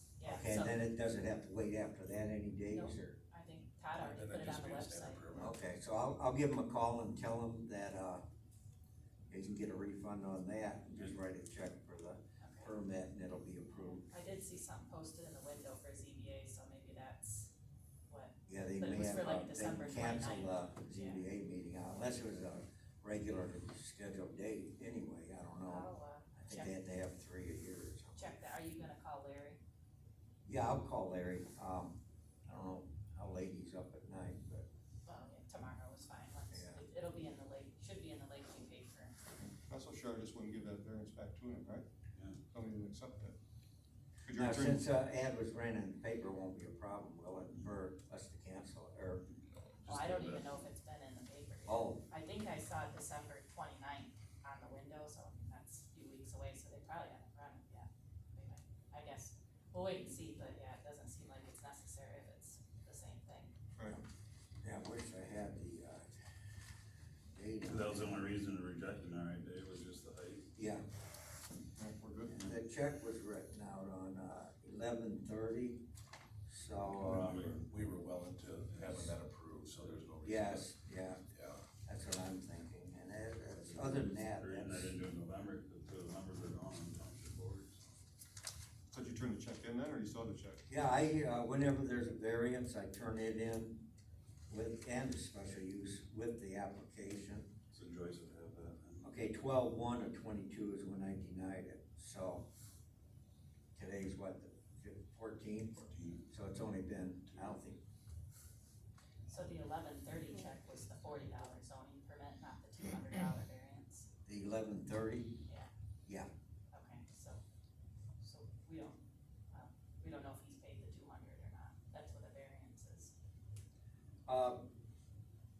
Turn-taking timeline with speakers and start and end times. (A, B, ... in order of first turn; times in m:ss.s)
0:00.2-0:00.8 A
0:00.2-0:03.2 B
0:02.7-0:05.3 A
0:04.0-0:05.6 C
0:05.3-0:08.2 B
0:09.3-0:14.1 B
0:12.4-0:12.7 A
0:13.8-0:17.5 A
0:18.1-0:21.2 A
0:18.5-0:28.3 B
0:25.6-0:26.7 A
0:28.2-0:29.6 A
0:30.4-0:34.6 B
0:35.0-0:39.2 A
0:36.5-0:36.8 B
0:39.4-0:41.8 D
0:42.5-0:43.4 D
0:44.2-0:44.8 D
0:44.3-0:49.2 B
0:49.8-0:50.6 E
0:49.8-1:03.5 A
0:51.6-0:52.0 B
1:03.7-1:04.0 D
1:04.6-1:06.1 B
1:07.3-1:08.2 B
1:07.6-1:10.5 E
1:10.6-1:10.8 B
1:11.8-1:12.4 D
1:12.3-1:15.8 B
1:16.5-1:17.6 B
1:16.8-1:17.7 E
1:17.6-1:20.7 C
1:20.2-1:21.2 B
1:21.3-1:21.6 C
1:21.8-1:24.9 B
1:23.6-1:27.8 E
1:28.9-1:30.7 D
1:30.7-1:33.8 B
1:34.5-1:37.5 B
1:37.7-1:39.1 E
1:39.0-1:42.5 B
1:43.8-1:47.8 B
1:45.9-1:46.2 E
1:49.3-1:54.1 A
1:54.2-1:55.4 B
1:56.7-1:57.4 A
1:58.2-1:59.0 A
1:59.5-2:03.1 A
2:04.3-2:04.7 B